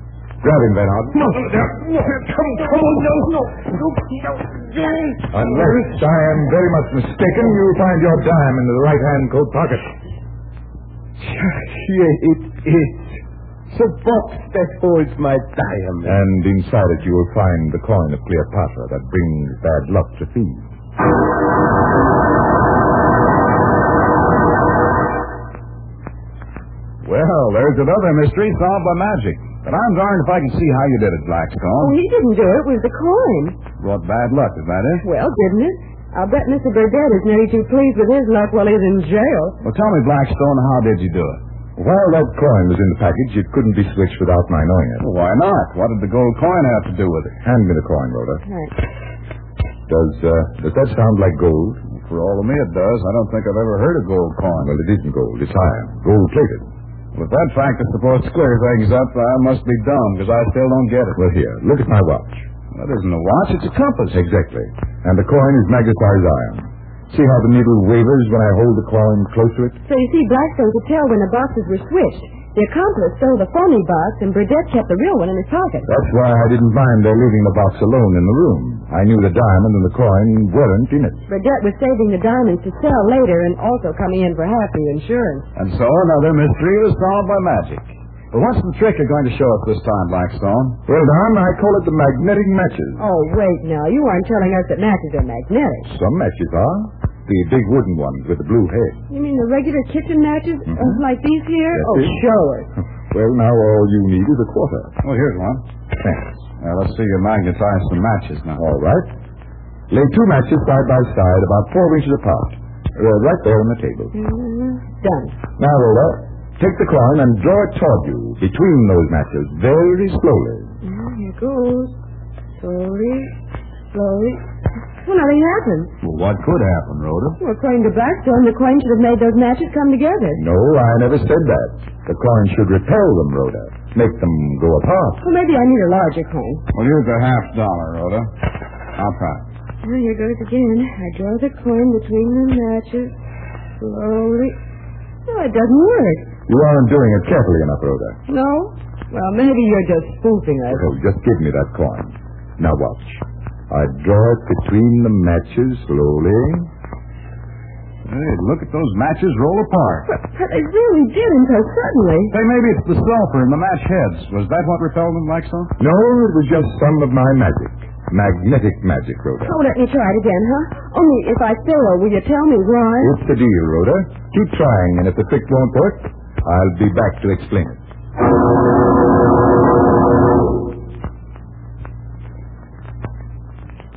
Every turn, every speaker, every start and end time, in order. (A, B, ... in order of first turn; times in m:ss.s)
0:00.4-0:01.6 A
0:01.7-0:05.2 B
0:05.3-0:09.9 A
0:11.2-0:16.3 C
0:16.0-0:20.6 A
0:27.0-0:32.0 D
0:31.8-0:33.6 E
0:33.8-0:35.0 D
0:35.0-0:39.6 E
0:39.6-0:41.4 D
0:41.8-0:45.1 A
0:45.0-0:47.4 D
0:47.4-0:48.4 A
0:48.5-0:48.7 E
0:49.9-0:51.8 A
0:52.0-0:54.7 D
0:54.5-0:56.7 A
0:57.2-1:01.2 D
1:01.2-1:02.5 A
1:02.8-1:04.2 D
1:04.1-1:09.8 A
1:09.9-1:15.9 E
1:15.9-1:21.2 A
1:21.3-1:25.5 E
1:25.6-1:30.8 D
1:30.9-1:33.0 A
1:33.0-1:35.9 E
1:35.8-1:39.0 A
1:39.1-1:42.7 E
1:40.7-1:41.0 A
1:41.7-1:42.2 A
1:43.1-1:45.0 A
1:45.0-1:45.6 D
1:46.0-1:46.5 A
1:46.6-1:48.6 D
1:48.6-1:49.1 A
1:49.9-1:54.1 A
1:54.1-1:55.4 E
1:55.6-2:00.7 A
2:00.8-2:02.0 E
2:02.6-2:03.3 E
2:03.9-2:04.4 E
2:05.0-2:05.9 E
2:06.0-2:07.4 D
2:07.4-2:10.4 E
2:10.4-2:15.2 A
2:15.2-2:16.6 E
2:16.7-2:18.3 D
2:19.0-2:19.4 D
2:19.8-2:23.2 E
2:23.8-2:24.6 E
2:25.3-2:26.3 E
2:26.5-2:28.2 A
2:28.3-2:30.8 E
2:30.7-2:36.7 A
2:38.1-2:40.1 D
2:40.1-2:42.4 E
2:42.3-2:45.7 D
2:45.8-2:49.6 A
2:49.4-2:53.1 E
2:53.0-2:57.8 A